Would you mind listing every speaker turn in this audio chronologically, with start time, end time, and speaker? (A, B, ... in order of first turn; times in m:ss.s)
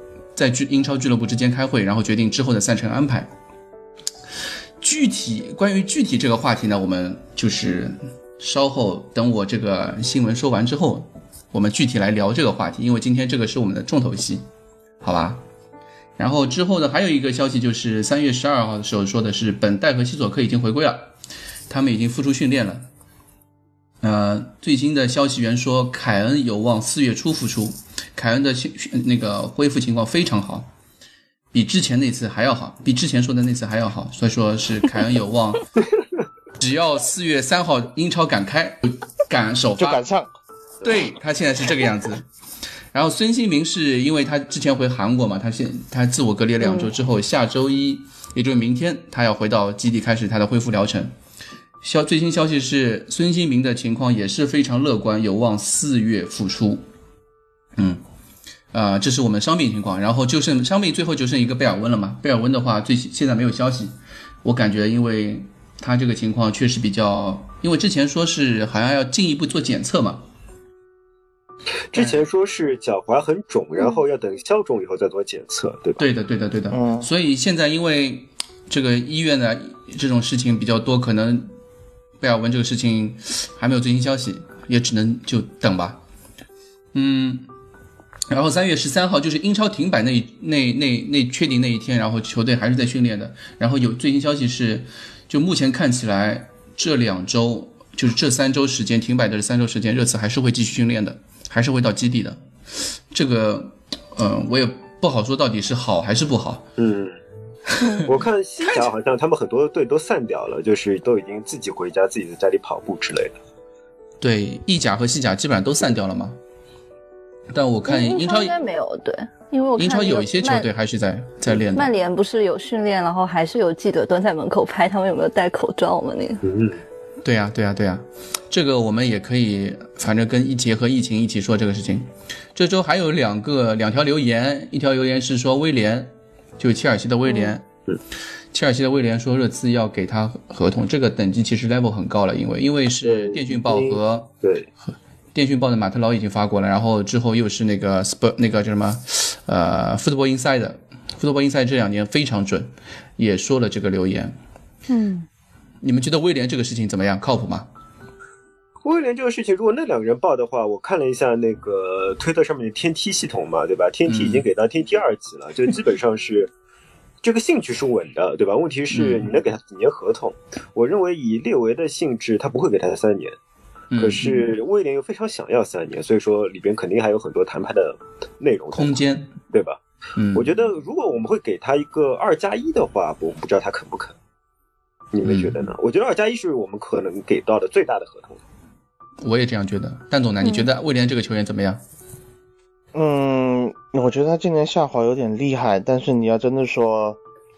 0:00.4-0:03.3 A
0:04.8-0:14.4 A
0:15.0-0:15.4 A
0:16.2-0:21.1 A
0:21.7-0:22.9 A
0:24.0-0:30.7 A
0:31.5-0:35.7 A
0:36.6-0:40.0 A
0:39.8-0:40.3 B
0:40.8-0:42.3 A
0:42.9-0:51.1 A
0:46.6-0:46.9 C
0:51.8-0:56.8 A
0:57.8-0:58.0 A
0:58.7-1:10.2 A
1:11.9-1:16.0 D
1:16.0-1:21.5 A
1:16.7-1:17.1 B
1:22.2-1:26.0 A
1:26.9-1:27.5 A
1:28.3-1:42.4 A
1:43.1-1:46.7 A
1:46.8-1:47.2 D
1:47.8-1:48.1 C
1:47.8-1:48.1 A
1:48.0-1:53.4 D
1:54.2-1:56.4 A
1:57.5-1:58.5 A
1:57.8-2:00.7 C
1:59.8-2:01.9 A
2:01.7-2:06.4 C
2:06.4-2:06.8 D
2:07.2-2:17.6 A
2:17.3-2:17.5 C
2:18.5-2:24.3 A
2:23.0-2:24.7 D
2:25.3-2:34.4 A
2:34.9-2:35.3 C
2:35.8-2:37.7 A
2:38.8-2:46.5 D
2:44.1-2:44.4 A
2:47.2-2:53.4 D
2:48.9-2:49.3 A
2:53.9-2:54.5 A
2:54.0-2:59.8 D
2:58.8-2:59.3 A
3:00.2-3:00.5 A
3:00.3-3:04.2 D
3:05.1-3:08.4 D
3:05.2-3:05.7 A
3:09.2-3:11.8 A
3:10.4-3:10.7 C
3:12.9-3:17.2 B